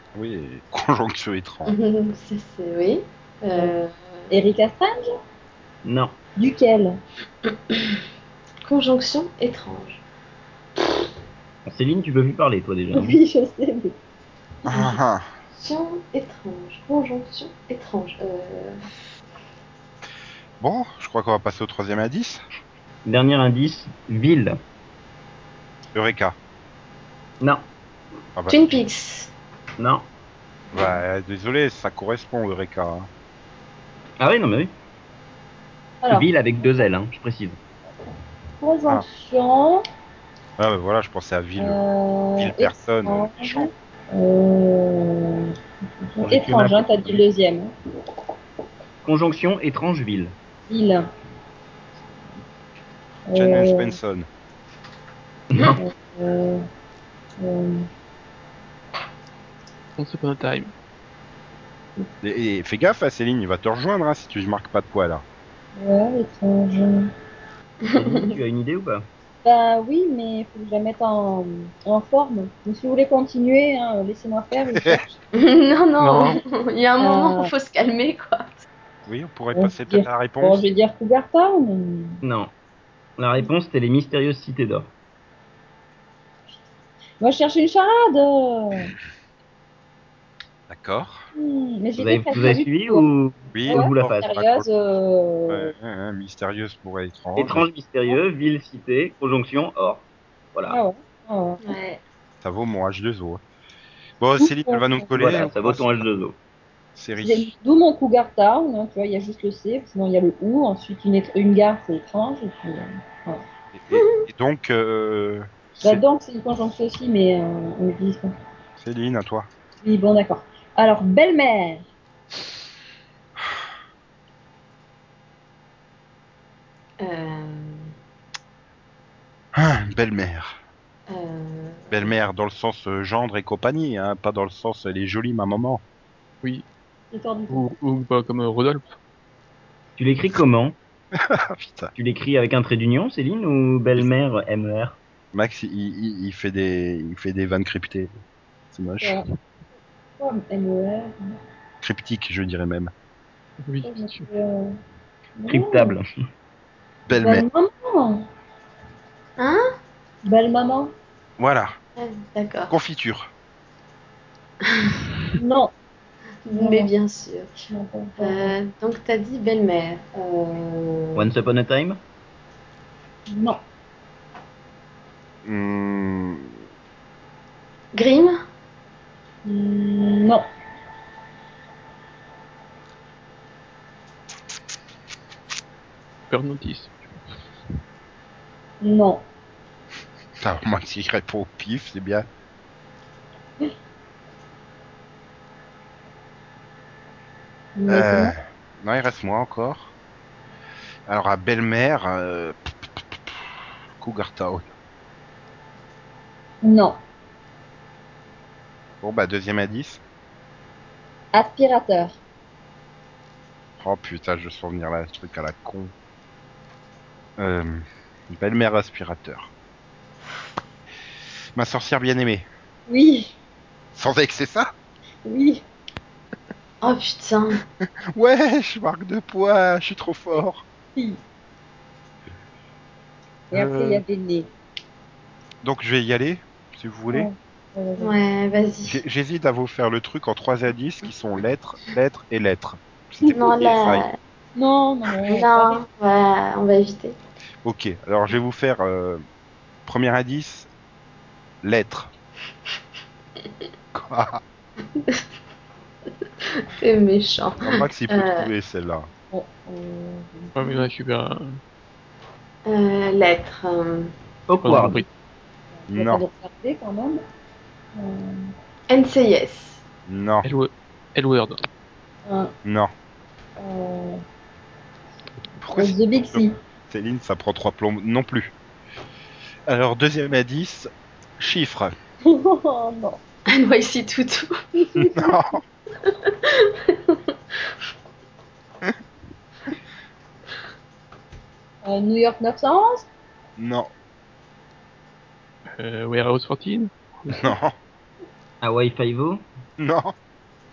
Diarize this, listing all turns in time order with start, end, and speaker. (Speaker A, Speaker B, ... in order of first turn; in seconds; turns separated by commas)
Speaker A: 0.1-1.7, Speaker B: 1.7-4.3, Speaker C: 4.3-5.1, Speaker D: 5.8-6.1, Speaker C: 6.4-7.0, Speaker B: 8.7-10.0, Speaker D: 11.7-13.2, Speaker C: 12.9-13.9, Speaker A: 14.7-15.3, Speaker B: 15.5-18.8, Speaker A: 20.6-22.4, Speaker D: 23.1-24.6, Speaker A: 25.9-26.4, Speaker A: 28.4-28.7, Speaker B: 28.5-29.3, Speaker D: 29.8-30.1, Speaker A: 30.7-33.1, Speaker D: 34.2-34.7, Speaker C: 36.0-36.3, Speaker D: 36.1-37.6, Speaker C: 38.6-39.8, Speaker A: 40.6-41.8, Speaker C: 41.6-45.5, Speaker A: 42.4-43.7, Speaker C: 46.0-47.7, Speaker D: 46.2-47.2, Speaker D: 49.0-50.4, Speaker C: 50.7-51.1, Speaker C: 53.3-54.0, Speaker A: 53.4-54.3, Speaker D: 55.5-55.8, Speaker C: 55.8-56.6, Speaker C: 57.4-57.9, Speaker E: 60.0-60.7, Speaker A: 62.2-65.2, Speaker C: 65.8-67.1, Speaker D: 68.0-69.0, Speaker C: 69.5-75.2, Speaker A: 74.7-75.0, Speaker B: 75.3-78.7, Speaker E: 76.0-76.4, Speaker C: 77.0-77.5, Speaker A: 79.1-80.7, Speaker C: 79.5-82.2, Speaker D: 82.2-82.5, Speaker D: 83.2-84.9, Speaker C: 87.2-88.9, Speaker A: 90.7-91.2, Speaker C: 91.3-93.1, Speaker D: 92.0-94.4, Speaker A: 93.5-94.7, Speaker C: 93.7-95.7, Speaker A: 95.5-97.7, Speaker D: 97.4-100.0, Speaker C: 100.7-102.0, Speaker A: 102.4-103.4, Speaker A: 104.2-106.0, Speaker C: 104.4-105.5, Speaker D: 105.1-106.4, Speaker A: 107.0-107.5, Speaker C: 107.2-113.4, Speaker A: 113.7-116.0, Speaker B: 113.9-114.2, Speaker C: 115.8-118.3, Speaker A: 118.8-119.5, Speaker C: 119.8-121.8, Speaker B: 127.0-127.9, Speaker A: 129.6-130.6, Speaker B: 131.1-132.1, Speaker A: 131.9-135.8, Speaker C: 137.1-137.6, Speaker E: 137.5-138.9, Speaker D: 140.0-140.8, Speaker A: 141.1-141.9, Speaker D: 142.0-145.0, Speaker A: 145.3-148.1, Speaker A: 148.7-149.2, Speaker C: 150.2-151.4, Speaker A: 151.8-152.9, Speaker E: 153.7-154.3, Speaker C: 153.8-154.7, Speaker C: 155.4-156.0, Speaker D: 155.5-156.1, Speaker A: 157.1-157.5, Speaker C: 157.2-158.2, Speaker C: 160.2-160.9, Speaker A: 161.4-161.8, Speaker B: 162.0-162.7, Speaker A: 162.7-163.3, Speaker C: 165.4-165.7, Speaker B: 166.5-167.5, Speaker C: 166.5-166.9, Speaker C: 167.7-168.6, Speaker B: 168.2-171.3, Speaker D: 171.2-172.0, Speaker C: 173.3-173.6, Speaker A: 175.4-176.5, Speaker B: 177.9-178.4, Speaker C: 179.4-180.4, Speaker E: 186.3-187.2, Speaker C: 188.8-189.2, Speaker A: 190.4-192.3, Speaker C: 197.8-198.3, Speaker A: 197.9-199.9, Speaker A: 201.1-204.7, Speaker C: 206.6-207.0, Speaker A: 209.0-210.0, Speaker C: 211.3-212.2, Speaker A: 213.8-215.9, Speaker A: 217.4-219.5, Speaker A: 221.6-222.5, Speaker C: 222.9-223.3, Speaker A: 223.9-224.7, Speaker C: 225.2-225.6, Speaker B: 226.8-227.6, Speaker A: 228.1-230.6, Speaker A: 233.5-234.0, Speaker C: 233.5-234.5, Speaker A: 235.6-237.3, Speaker C: 237.1-238.2, Speaker B: 238.0-239.0, Speaker A: 238.9-244.1, Speaker B: 243.3-244.2, Speaker C: 244.6-245.8, Speaker B: 245.3-247.2, Speaker A: 247.6-249.2, Speaker A: 249.9-250.7, Speaker A: 251.6-252.1, Speaker A: 253.9-254.4, Speaker B: 256.8-258.5, Speaker A: 257.6-259.1, Speaker C: 259.3-260.9, Speaker E: 260.6-261.6, Speaker B: 262.7-264.1, Speaker D: 264.5-265.0, Speaker E: 264.6-265.1, Speaker C: 265.8-267.2, Speaker A: 265.9-266.2, Speaker C: 268.0-268.5, Speaker B: 268.9-269.8, Speaker A: 270.1-270.5, Speaker E: 270.4-271.6, Speaker C: 272.3-272.5, Speaker A: 272.6-272.9, Speaker C: 273.6-274.2, Speaker A: 275.6-278.5, Speaker C: 275.7-276.5, Speaker A: 279.7-281.9, Speaker C: 282.3-283.2, Speaker B: 283.5-284.5, Speaker C: 284.8-285.3, Speaker A: 285.0-285.6, Speaker B: 286.1-287.2, Speaker C: 291.8-293.1, Speaker A: 293.6-293.9, Speaker E: 295.8-297.5, Speaker A: 297.3-297.8, Speaker D: 298.6-299.4, Speaker A: 299.8-300.1